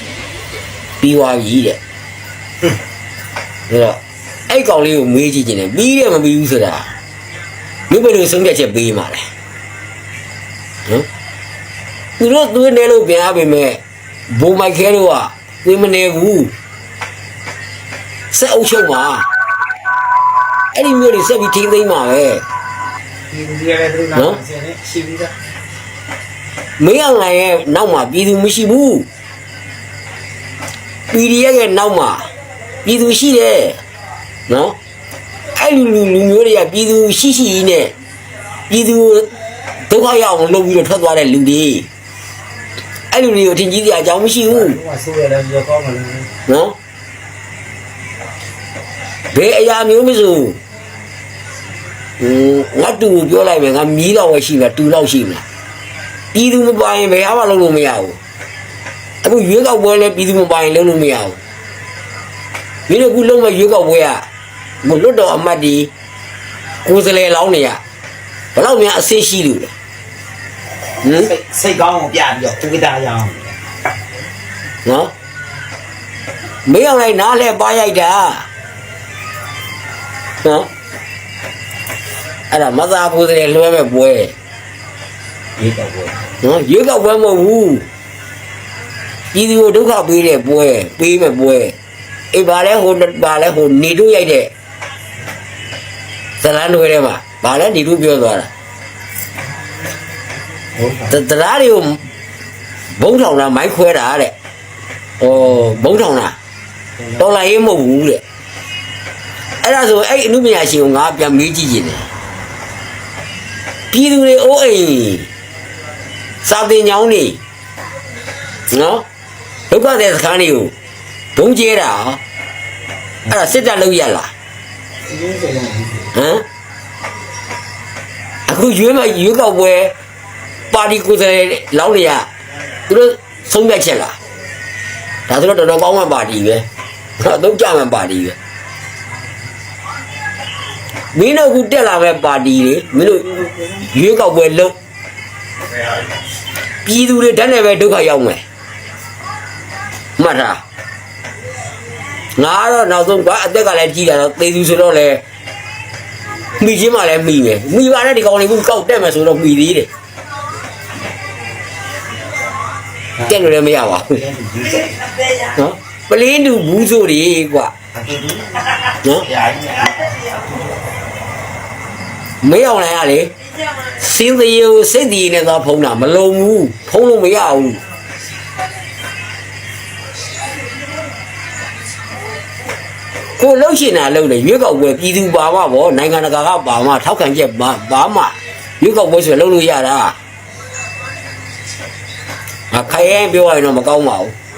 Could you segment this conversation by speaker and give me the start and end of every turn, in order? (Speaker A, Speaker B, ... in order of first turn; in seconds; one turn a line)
Speaker A: 1.0-1.8
Speaker A: 3.7-6.9
Speaker A: 7.9-9.2
Speaker A: 12.2-13.8
Speaker A: 14.3-16.5
Speaker A: 18.3-19.2
Speaker A: 20.7-22.4
Speaker B: 23.3-25.4
Speaker A: 24.1-24.4
Speaker A: 26.8-29.1
Speaker A: 31.1-32.3
Speaker A: 32.8-33.8
Speaker A: 34.5-34.8
Speaker A: 35.5-37.9
Speaker A: 38.7-39.3
Speaker A: 39.9-41.9
Speaker A: 43.1-44.8
Speaker B: 44.5-46.3
Speaker A: 46.5-46.8
Speaker A: 49.3-50.6
Speaker A: 52.2-55.4
Speaker A: 56.3-58.2
Speaker A: 59.2-61.4
Speaker A: 62.9-64.2
Speaker A: 64.8-65.9
Speaker A: 66.8-67.8
Speaker A: 68.5-69.7
Speaker A: 71.0-71.3
Speaker B: 71.1-73.5
Speaker A: 74.8-75.1
Speaker A: 76.7-78.5
Speaker A: 80.4-80.7
Speaker A: 82.5-84.3
Speaker B: 85.6-86.2
Speaker A: 86.4-87.8
Speaker A: 89.3-91.8
Speaker A: 92.3-94.5
Speaker A: 96.4-98.5
Speaker B: 100.8-101.1
Speaker A: 101.1-102.0
Speaker A: 103.0-104.3
Speaker A: 105.2-106.3
Speaker A: 107.2-108.2
Speaker A: 109.6-112.1
Speaker A: 113.9-115.3
Speaker A: 116.4-117.4
Speaker A: 118.7-119.0
Speaker A: 119.7-120.7
Speaker A: 121.3-122.2
Speaker A: 123.2-124.3
Speaker B: 125.1-126.1
Speaker A: 126.1-126.4
Speaker A: 128.5-129.9
Speaker A: 130.7-132.2
Speaker A: 132.9-134.2
Speaker A: 135.3-136.6
Speaker A: 137.2-138.3
Speaker A: 141.1-144.8
Speaker A: 146.8-148.4
Speaker A: 150.2-150.6
Speaker A: 152.4-155.2
Speaker A: 156.6-159.9
Speaker A: 163.2-164.2
Speaker B: 164.1-165.0
Speaker A: 165.5-167.7
Speaker B: 167.9-168.7
Speaker B: 169.2-170.3
Speaker A: 172.4-173.3
Speaker A: 174.0-177.8
Speaker A: 183.4-190.2
Speaker A: 192.7-194.3